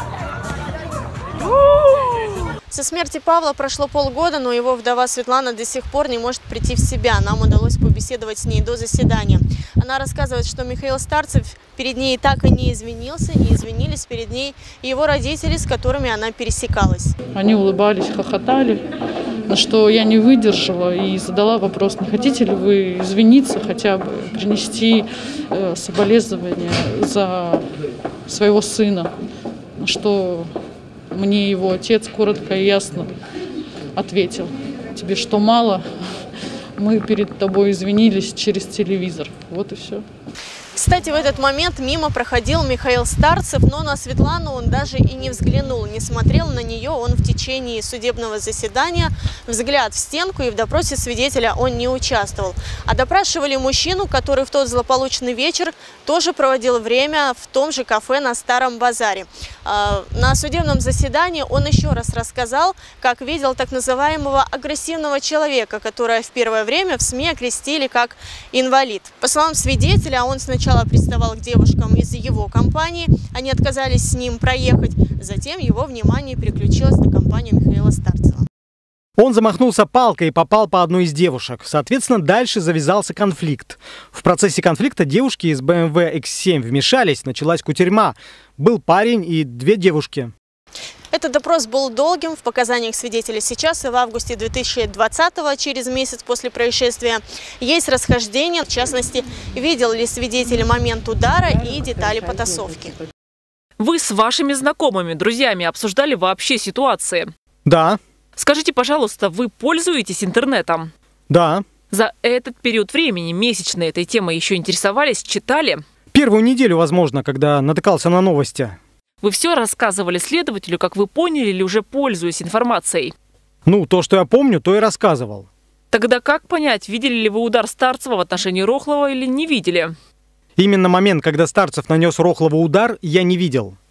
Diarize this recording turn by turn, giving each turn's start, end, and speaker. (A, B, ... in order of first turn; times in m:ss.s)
0:01.6-0:02.3 A
0:02.7-0:17.1 B
0:17.3-0:18.8 C
0:19.5-0:27.7 C
0:28.3-0:29.1 C
0:29.8-0:30.5 C
0:31.1-0:33.1 C
0:34.0-0:35.8 C
0:36.8-0:40.0 C
0:40.7-1:18.5 B
1:19.2-1:30.3 D
1:31.1-1:43.0 B
1:43.8-1:47.3 A
1:47.6-1:48.0 D
1:48.4-1:50.9 A
1:51.3-1:51.6 D
1:51.9-1:55.8 A
1:56.1-1:58.8 D
1:59.2-2:03.1 A
2:03.7-2:05.5 D
2:05.9-2:09.9 A
2:10.6-2:13.8 D